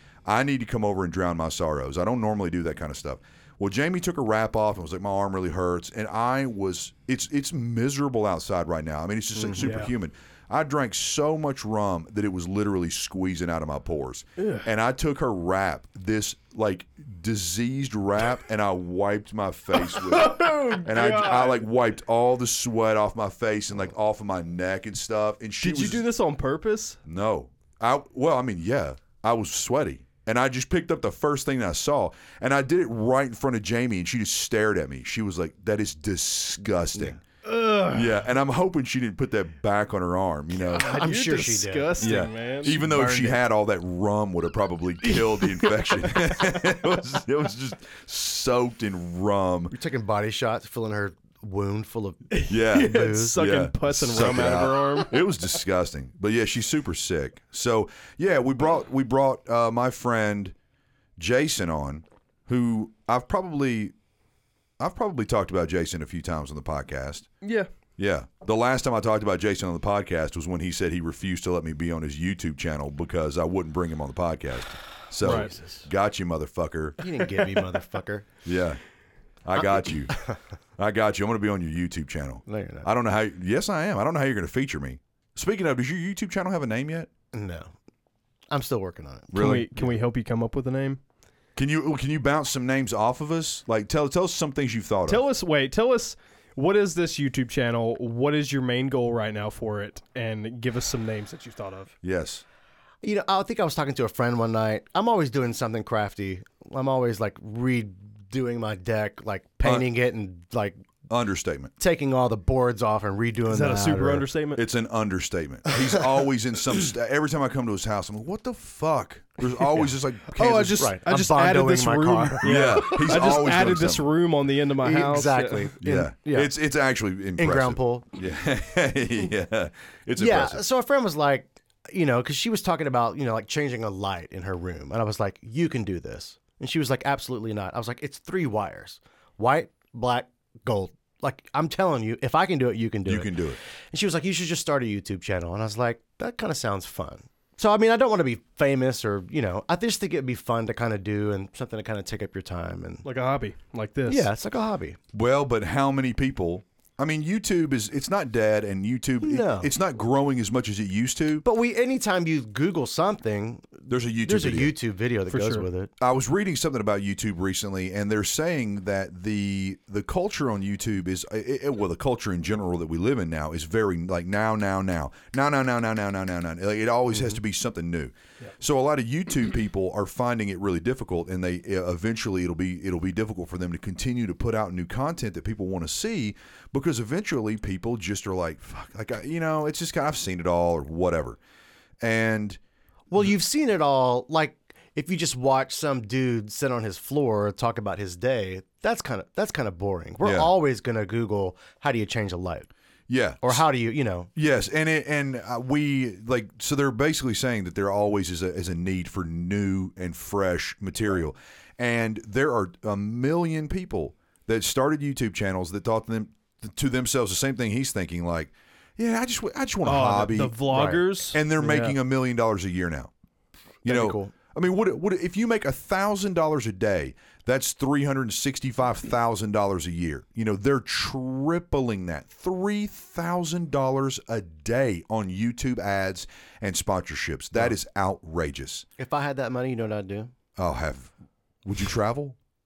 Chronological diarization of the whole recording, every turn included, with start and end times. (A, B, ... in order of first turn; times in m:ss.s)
0:00.3-0:26.0 A
0:09.4-0:09.7 B
0:09.6-0:09.9 C
0:14.4-0:14.7 C
0:19.8-0:21.7 C
0:25.6-0:27.0 C
0:27.1-0:37.2 A
0:37.4-0:38.2 C
0:37.9-0:40.9 A
0:40.6-0:42.0 B
0:40.7-0:42.8 C
0:42.0-0:49.7 A
0:42.6-0:43.4 B
0:45.0-0:46.6 C
0:49.7-0:53.4 B
0:52.3-0:55.5 C
0:52.5-1:00.5 A
1:01.2-1:03.9 A
1:04.8-1:07.3 A
1:07.4-1:07.7 C
1:08.0-1:17.0 A
1:15.2-1:15.5 C
1:15.2-1:15.9 B
1:17.0-1:18.3 B
1:18.4-1:18.8 A
1:19.4-1:20.2 A
1:20.1-1:20.4 B
1:20.8-1:27.1 A
1:22.5-1:22.9 B
1:27.3-1:27.7 B
1:28.5-1:29.3 B
1:29.3-1:29.9 A
1:29.3-1:31.0 C
1:31.6-1:35.2 A
1:35.1-1:41.9 C
1:42.0-1:42.4 A
1:43.0-1:50.8 B
1:51.1-1:51.7 A
1:51.8-1:54.3 B
1:53.5-1:54.6 C
1:54.6-2:00.8 A
2:00.4-2:05.7 C
2:00.8-2:03.2 B
2:02.4-2:04.0 A
2:04.8-2:06.5 B
2:05.8-2:10.6 A
2:07.4-2:08.1 B
2:10.2-2:23.3 B
2:23.1-2:23.6 A
2:23.9-2:33.0 B
2:33.0-2:34.3 C
2:34.1-2:35.0 B
2:35.1-2:41.4 A
2:39.2-2:39.7 B
2:41.4-2:45.9 B
2:43.9-2:44.8 A
2:45.3-2:45.7 C
2:46.0-3:11.4 A
3:12.0-3:12.6 A
3:13.1-3:22.7 B
3:20.2-3:20.5 A
3:23.1-3:23.6 A
3:23.4-3:24.3 B
3:24.4-3:43.1 A
3:39.8-3:42.0 C
3:40.7-3:41.1 B
3:43.8-3:44.3 B
3:43.8-3:58.9 A
3:59.0-4:00.3 B
4:00.6-4:01.1 A
4:01.6-4:02.4 A